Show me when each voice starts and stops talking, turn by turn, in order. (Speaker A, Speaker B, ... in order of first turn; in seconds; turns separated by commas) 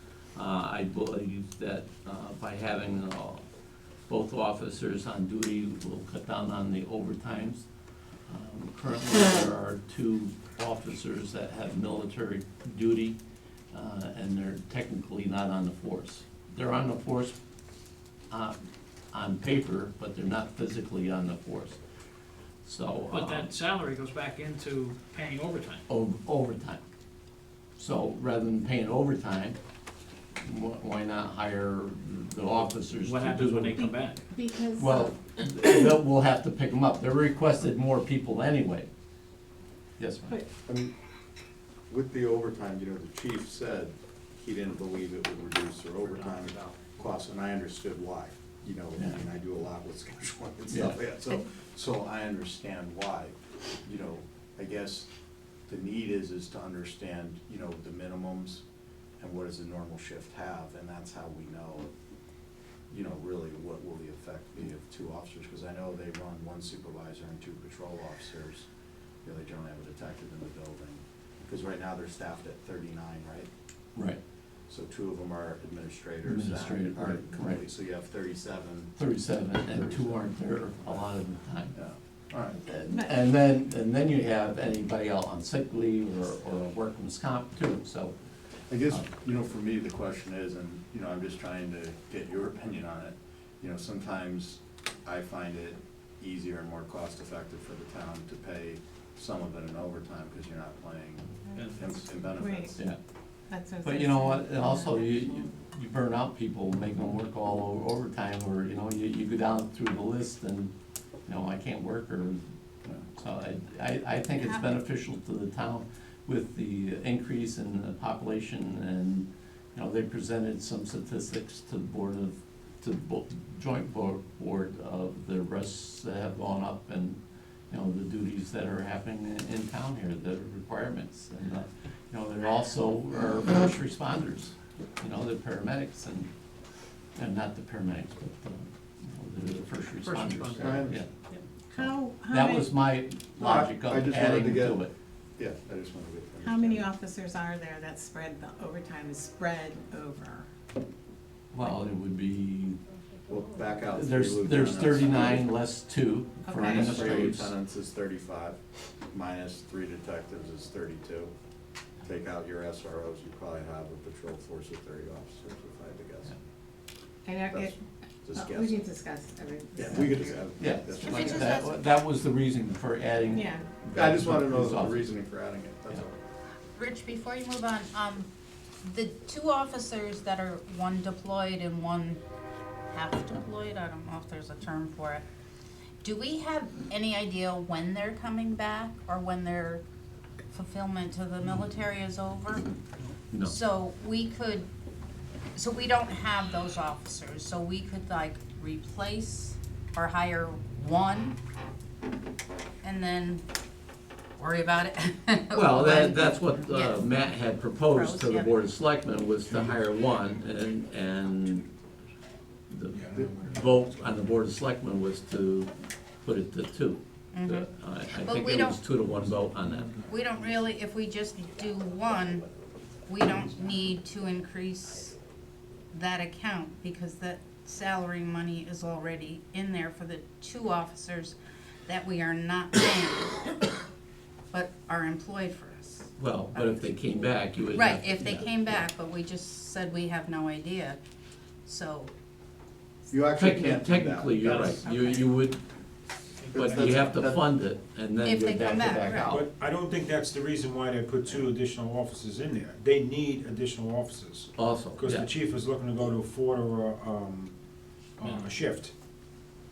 Speaker A: 0.3-3.4, Speaker A: 4.1-7.7, Speaker A: 8.3-13.2, Speaker A: 13.7-17.4, Speaker A: 18.3-18.6, Speaker A: 19.1-21.8, Speaker A: 22.6-23.5, Speaker B: 23.1-25.8, Speaker A: 25.9-26.8, Speaker A: 27.8-29.6, Speaker A: 30.4-33.8, Speaker B: 33.0-34.2, Speaker C: 33.8-35.1, Speaker A: 34.7-38.9, Speaker A: 40.0-40.4, Speaker D: 40.6-40.9, Speaker D: 41.9-55.1, Speaker B: 46.0-46.8, Speaker A: 50.7-51.0, Speaker D: 55.7-58.6, Speaker D: 59.2-61.9, Speaker D: 62.9-68.7, Speaker D: 69.2-73.5, Speaker A: 73.9-74.2, Speaker D: 74.7-79.0, Speaker A: 76.2-77.6, Speaker A: 79.0-81.8, Speaker D: 79.7-80.3, Speaker D: 81.7-82.6, Speaker A: 82.6-88.1, Speaker C: 82.9-83.2, Speaker D: 88.7-102.8, Speaker B: 101.5-102.1, Speaker C: 102.3-102.8, Speaker C: 103.5-105.5, Speaker A: 103.8-110.7, Speaker A: 111.3-112.4, Speaker A: 113.1-136.3, Speaker E: 114.4-114.6, Speaker A: 137.2-141.1, Speaker B: 140.0-140.9, Speaker D: 140.6-141.0, Speaker C: 141.7-142.7, Speaker A: 141.7-144.9, Speaker D: 143.4-144.8, Speaker D: 145.4-146.9, Speaker C: 146.4-150.5, Speaker A: 151.5-152.8, Speaker D: 153.3-155.5, Speaker A: 153.9-157.5, Speaker C: 156.4-157.3, Speaker D: 156.5-158.6, Speaker D: 159.1-161.3, Speaker D: 162.0-166.4, Speaker C: 167.2-167.8, Speaker D: 167.5-168.9, Speaker C: 168.3-171.6, Speaker D: 169.7-171.6, Speaker A: 170.6-175.2, Speaker E: 171.1-171.7, Speaker C: 173.3-173.6, Speaker D: 173.9-176.2, Speaker E: 176.8-178.3, Speaker E: 178.8-182.2, Speaker E: 182.9-185.2, Speaker E: 186.0-189.8, Speaker E: 190.5-192.7, Speaker E: 193.4-194.7, Speaker E: 195.5-201.3, Speaker E: 202.8-203.4, Speaker E: 204.4-207.1, Speaker A: 205.5-211.7, Speaker E: 207.9-208.5, Speaker A: 212.7-215.7, Speaker A: 216.2-220.0, Speaker E: 217.3-218.8, Speaker E: 220.0-222.5, Speaker E: 223.1-225.1, Speaker E: 225.9-233.6, Speaker E: 234.5-236.9, Speaker A: 236.2-238.8, Speaker E: 237.7-241.0, Speaker E: 241.7-242.1, Speaker D: 243.1-244.8, Speaker A: 243.3-245.6, Speaker B: 244.5-244.8, Speaker A: 246.5-249.4, Speaker D: 246.5-247.5, Speaker E: 248.2-249.4, Speaker F: 249.3-257.5, Speaker A: 254.6-255.3, Speaker F: 258.2-258.9, Speaker B: 258.2-258.5